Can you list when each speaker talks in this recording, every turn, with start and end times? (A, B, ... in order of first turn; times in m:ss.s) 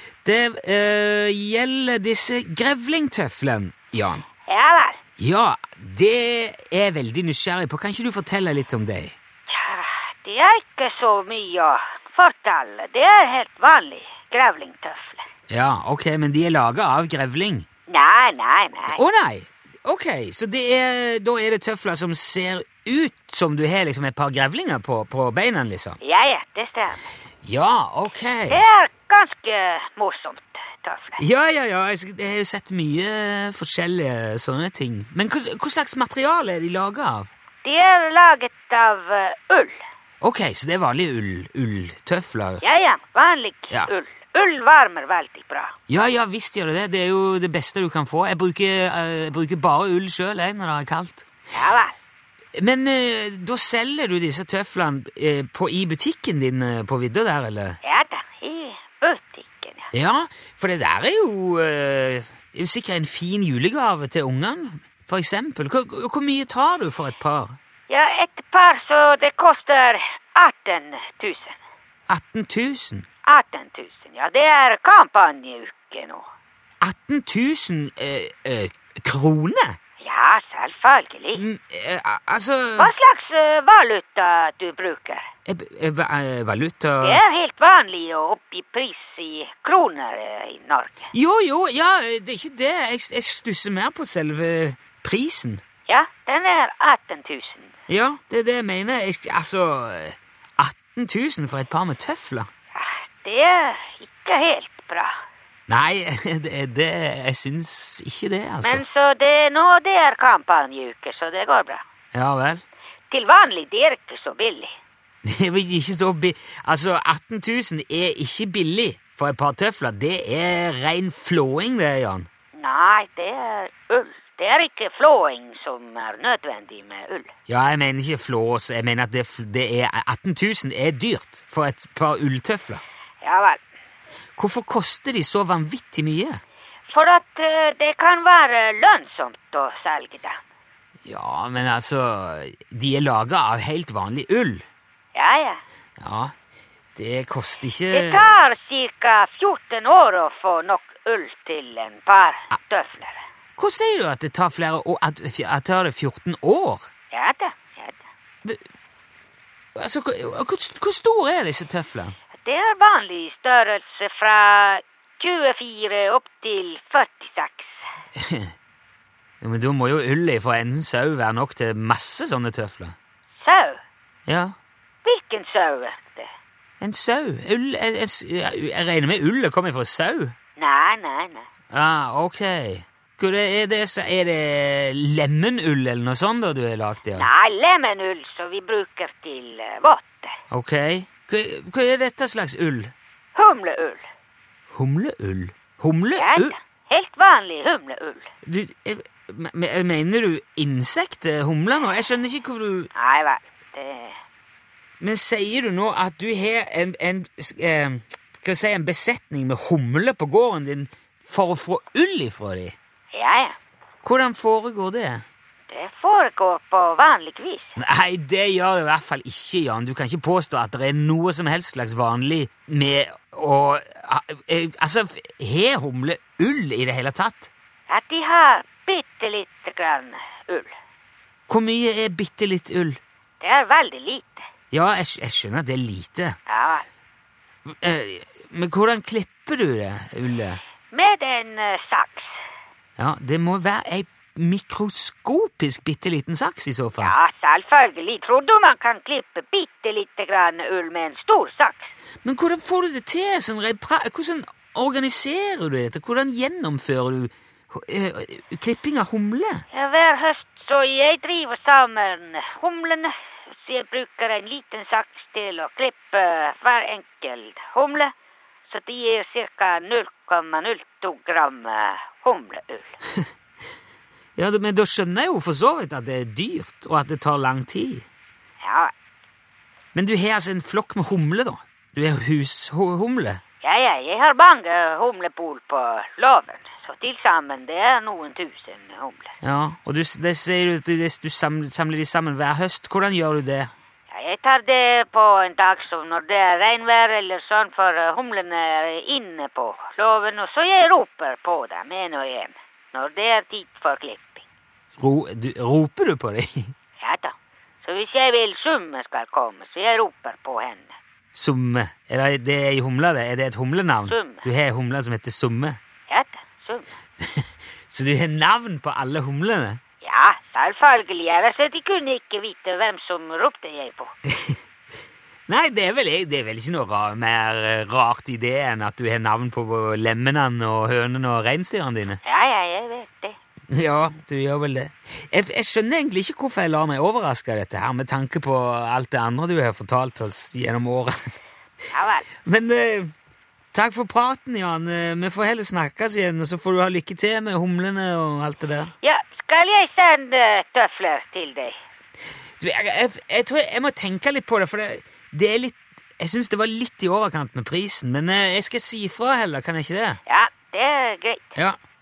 0:00.2-0:04.2 A
0:04.4-0:05.0 B
0:05.2-0:09.2 A
0:09.5-0:15.2 B
0:15.5-0:17.7 A
0:17.9-0:19.0 B
0:18.9-0:26.0 A
0:26.0-0:27.1 B
0:27.4-0:28.6 A
0:28.5-0:31.2 B
0:31.2-0:37.3 A
0:37.6-0:39.8 B
0:40.2-0:42.6 A
0:42.6-0:45.7 B
0:45.9-0:51.2 A
0:51.5-0:51.9 B
0:52.6-0:57.8 A
0:57.8-0:59.9 B
0:59.9-1:07.6 A
1:07.9-1:11.6 B
1:12.1-1:13.1 A
1:13.2-1:16.2 B
1:16.8-1:19.8 A
1:20.0-1:21.4 B
1:21.4-1:22.9 A
1:22.8-1:25.2 B
1:25.5-1:27.2 A
1:27.0-1:31.1 B
1:31.1-1:35.6 A
1:35.9-1:37.7 B
1:37.9-1:42.5 A
1:42.7-1:45.1 B
1:45.7-1:48.8 A
1:48.6-1:51.8 B
1:52.1-1:52.6 A
1:53.1-1:54.7 B
1:55.2-2:02.3 A
2:02.5-2:07.3 B
2:07.5-2:12.8 A
2:13.2-2:13.6 B
2:14.4-2:16.4 A
2:16.9-2:20.4 B
2:21.1-2:24.6 A
2:25.2-2:25.6 B
2:26.0-2:26.3 A
2:27.0-2:28.3 A
2:27.9-2:33.2 B
2:33.6-2:36.9 A
2:37.1-2:38.1 B
2:39.8-2:42.1 A
2:42.4-2:47.8 B
2:48.2-2:48.5 A
2:49.4-2:53.0 A
2:53.4-2:53.8 B
2:54.3-2:54.5 A
2:55.0-2:56.3 B
2:56.8-3:00.3 A
3:00.6-3:01.5 B
3:01.7-3:07.3 A
3:07.1-3:10.4 B
3:10.5-3:12.9 A
3:13.3-3:14.1 B
3:14.7-3:16.5 A
3:16.2-3:18.3 B
3:18.4-3:22.9 A
3:22.9-3:24.2 B
3:25.0-3:32.8 A
3:33.1-3:33.6 B
3:34.0-3:35.2 A
3:35.7-3:37.7 B
3:37.8-3:47.5 A
3:47.9-3:50.7 B
3:51.5-3:53.0 A
3:53.4-3:54.4 B
3:54.7-3:56.4 A
3:56.5-3:56.8 B
3:57.7-4:00.6 A
4:00.9-4:02.3 B
4:03.0-4:07.2 A
4:07.0-4:11.9 B
4:12.2-4:19.6 A
4:19.7-4:28.1 B
4:28.7-4:33.0 B
4:34.4-4:38.0 A
4:38.6-4:38.9 B
4:40.0-4:43.4 A
4:43.6-4:49.3 B
4:49.4-4:53.7 A
4:54.1-5:04.4 B
5:05.0-5:06.7 A
5:07.0-5:10.9 B
5:11.3-5:15.8 A
5:14.1-5:14.5 B
5:16.1-5:17.0 B
5:17.2-5:19.8 A
5:20.0-5:24.1 B
5:24.3-5:24.6 A
5:25.5-5:32.2 A
5:32.2-5:33.4 B
5:33.7-5:41.1 A
5:41.9-5:42.3 B
5:42.4-5:43.1 A
5:43.7-5:48.9 A
5:49.0-5:51.8 B
5:52.6-6:00.2 A
6:00.2-6:01.6 B